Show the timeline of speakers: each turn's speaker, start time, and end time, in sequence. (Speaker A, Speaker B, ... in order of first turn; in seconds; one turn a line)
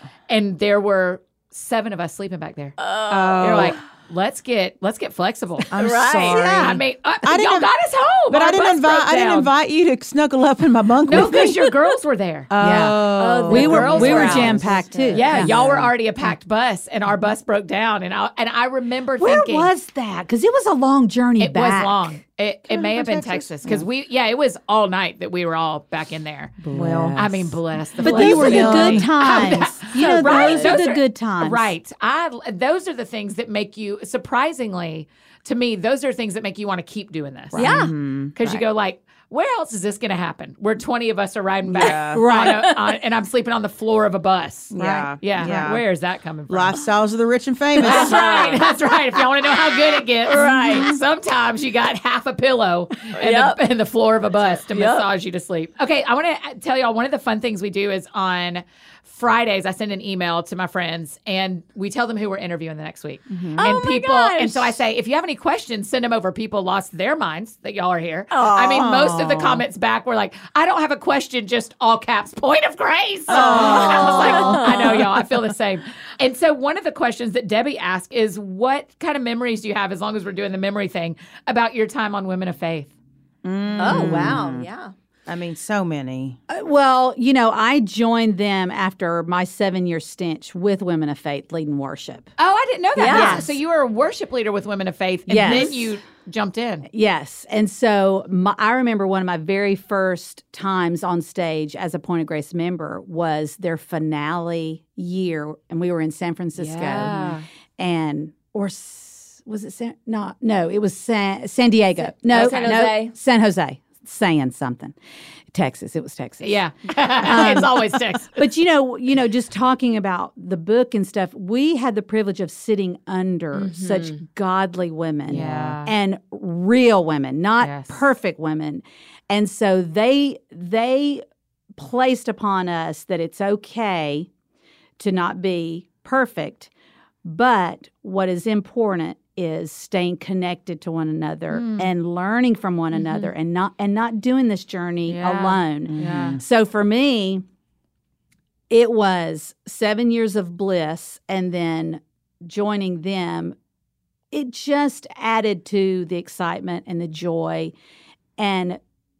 Speaker A: 0.3-9.5
Speaker B: 2.8-3.8
Speaker C: 3.1-3.8
Speaker C: 5.7-7.7
Speaker B: 5.7-6.7
Speaker C: 8.3-11.7
Speaker A: 11.0-12.5
Speaker C: 12.5-14.7
Speaker D: 12.6-15.5
Speaker B: 13.2-15.6
Speaker A: 13.5-14.6
Speaker A: 15.1-19.7
Speaker C: 15.2-15.9
Speaker D: 19.2-22.2
Speaker A: 21.4-26.6
Speaker C: 22.7-23.8
Speaker C: 26.6-27.4
Speaker D: 26.7-27.4
Speaker A: 27.1-37.8
Speaker C: 28.0-29.4
Speaker B: 28.0-30.8
Speaker D: 28.0-31.7
Speaker C: 37.5-38.4
Speaker B: 37.5-37.9
Speaker A: 38.4-46.8
Speaker C: 41.6-42.2
Speaker D: 42.1-42.6
Speaker B: 42.3-42.9
Speaker C: 44.7-45.8
Speaker D: 44.8-45.6
Speaker C: 46.5-48.3
Speaker B: 47.8-48.7
Speaker A: 47.8-82.9
Speaker B: 49.4-51.0
Speaker B: 53.1-53.6
Speaker B: 54.7-55.0
Speaker C: 63.3-63.7
Speaker B: 63.5-64.8
Speaker B: 68.4-69.0
Speaker C: 68.7-69.6
Speaker C: 73.3-74.9
Speaker B: 73.3-75.3
Speaker C: 83.4-84.7
Speaker B: 83.8-84.9
Speaker D: 83.9-84.4
Speaker C: 85.3-86.4
Speaker D: 86.5-92.3
Speaker A: 92.4-96.8
Speaker B: 93.0-93.5
Speaker D: 93.1-93.5
Speaker D: 95.3-96.0
Speaker D: 96.9-115.0
Speaker A: 106.6-107.5
Speaker B: 112.0-113.1
Speaker A: 112.4-112.7
Speaker D: 115.5-116.6
Speaker A: 116.4-118.3
Speaker D: 117.2-131.2
Speaker B: 123.5-124.2
Speaker A: 125.3-125.9
Speaker A: 127.6-128.0
Speaker D: 131.8-134.3
Speaker D: 135.0-136.7
Speaker D: 137.2-147.4
Speaker A: 141.5-141.9
Speaker B: 142.9-143.3
Speaker A: 145.1-146.4
Speaker C: 145.9-146.4
Speaker D: 148.7-153.6
Speaker D: 154.3-157.7
Speaker D: 158.4-158.8